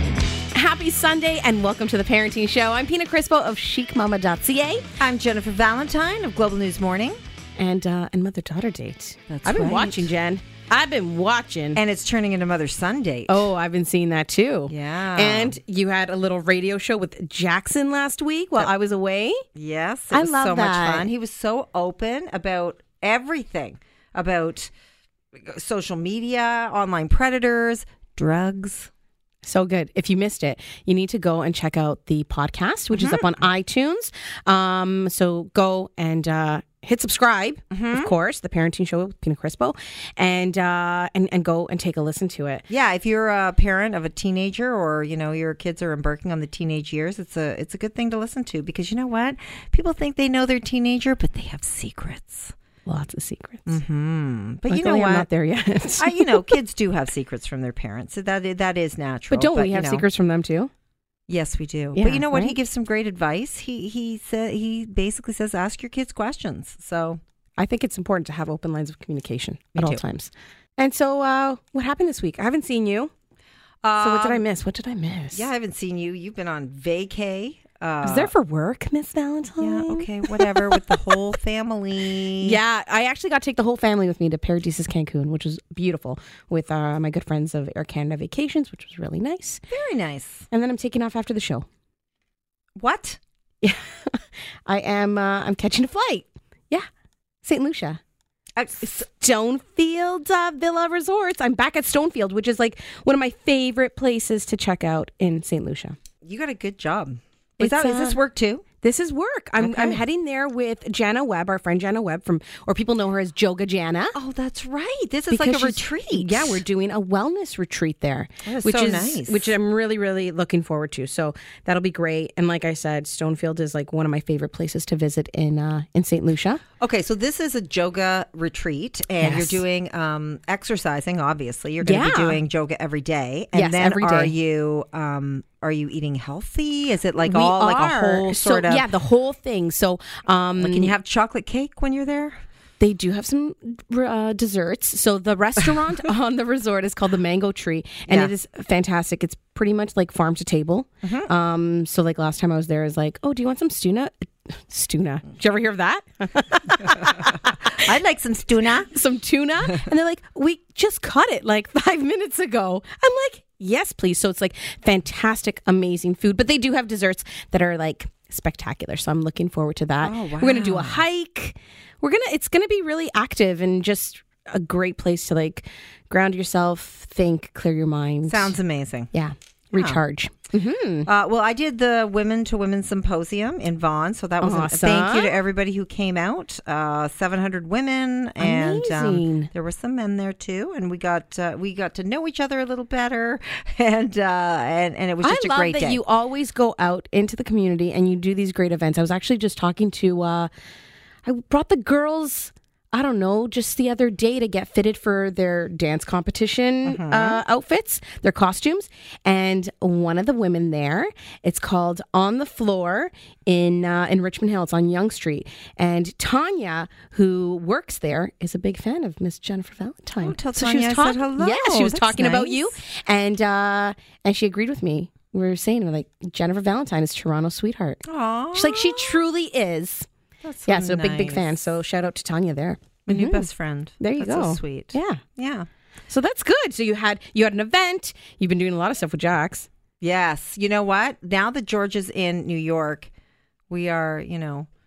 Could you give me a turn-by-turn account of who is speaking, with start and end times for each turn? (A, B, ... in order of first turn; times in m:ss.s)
0:00.5-0:04.9 A
0:05.0-0:07.2 B
0:07.6-0:11.8 A
0:09.3-0:10.1 B
0:11.8-0:13.4 B
0:13.3-0:19.4 A
0:14.7-0:15.6 B
0:19.6-0:24.7 B
0:20.1-0:21.1 A
0:25.4-0:28.9 B
0:29.4-0:42.7 A
0:32.9-0:33.3 B
0:37.7-0:38.1 B
0:42.7-0:52.5 B
0:52.9-0:53.8 A
0:53.7-0:55.3 B
0:54.7-0:56.6 A
0:56.0-1:00.0 B
0:59.3-1:00.7 A
1:01.3-1:07.2 B
1:01.9-1:02.6 A
1:07.6-1:13.1 A
1:09.8-1:10.0 B
1:13.8-1:14.4 B
1:14.0-1:15.5 A
1:15.3-1:18.3 B
1:18.0-1:21.0 A
1:19.6-1:22.6 B
1:22.4-1:29.6 A
1:29.7-1:30.5 B
1:30.5-1:31.7 A
1:32.8-1:33.2 B
1:33.6-1:36.8 A
1:37.4-1:38.0 A
1:38.6-1:39.1 B
1:38.8-1:46.0 A
1:46.2-1:48.6 B
1:47.6-1:48.2 A
1:48.8-1:54.2 A
1:49.6-1:50.0 B
1:54.1-1:56.6 B
1:55.3-2:06.6 A
1:58.4-1:59.5 B
2:06.8-2:18.9 B
2:09.2-2:09.6 A
2:11.8-2:12.4 A
2:13.5-2:14.3 A
2:17.2-2:20.9 A
2:20.6-2:22.4 B
2:22.8-2:37.8 A
2:31.0-2:31.3 B
2:37.0-2:38.9 B
2:38.9-2:58.5 A
2:50.0-2:51.0 B
2:58.3-2:59.1 B
2:59.1-3:01.1 A
2:59.7-3:00.0 B
3:01.1-3:16.0 B
3:04.4-3:05.3 A
3:08.4-3:09.5 A
3:15.2-3:20.5 A
3:21.2-3:50.1 A
3:26.8-3:27.4 B
3:40.2-3:42.7 B
3:48.0-3:49.2 B
3:50.4-3:51.5 B
3:50.7-3:53.5 A
3:53.1-3:55.7 B
3:54.0-3:55.2 A
3:56.1-3:59.7 A
4:00.0-4:03.1 B
4:03.7-4:04.7 B